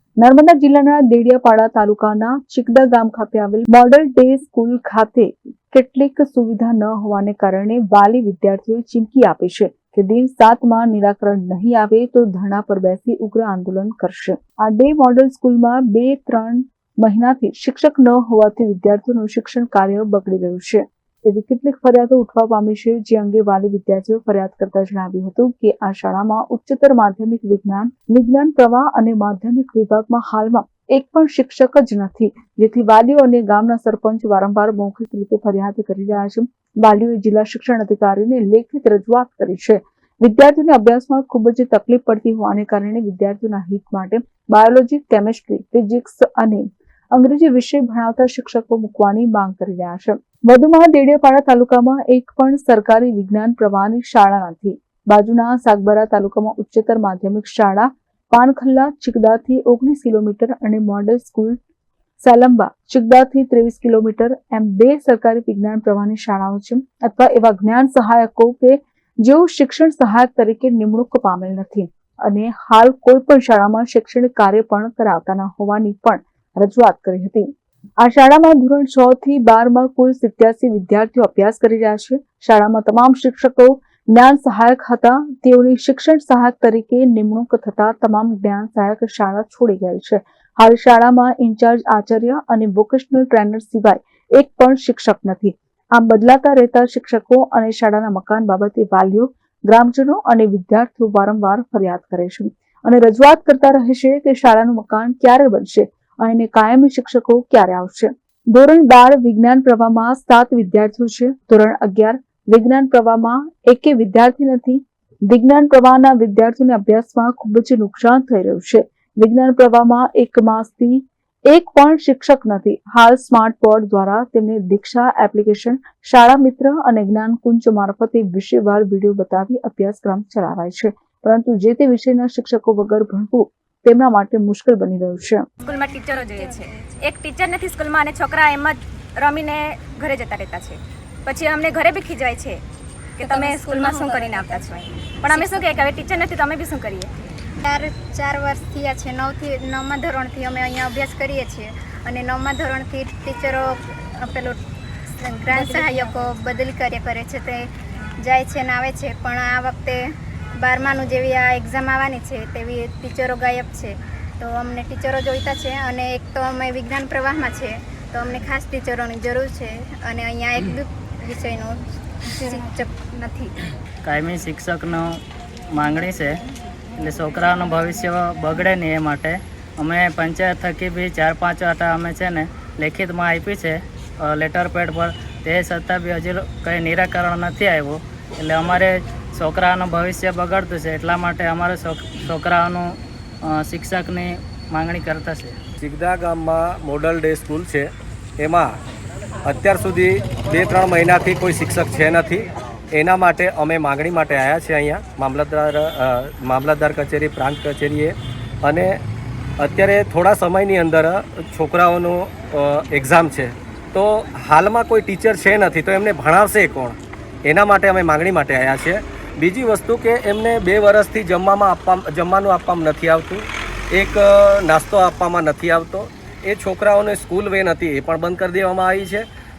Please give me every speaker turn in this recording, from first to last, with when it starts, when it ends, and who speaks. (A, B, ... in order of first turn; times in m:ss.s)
0:00.2-1:01.6 A
1:02.2-2:15.4 A
2:15.6-2:22.6 B
2:16.3-2:16.8 C
2:23.2-2:27.3 B
2:23.2-2:24.7 C
2:25.2-2:26.0 C
2:27.6-2:34.6 C
2:35.1-2:37.7 C
2:35.5-2:36.1 B
2:38.2-2:40.0 C
2:40.6-2:53.6 C
2:54.0-2:56.4 D
2:57.0-3:15.6 D
3:15.8-3:18.7 E
3:19.4-3:29.0 E
3:29.6-3:49.2 E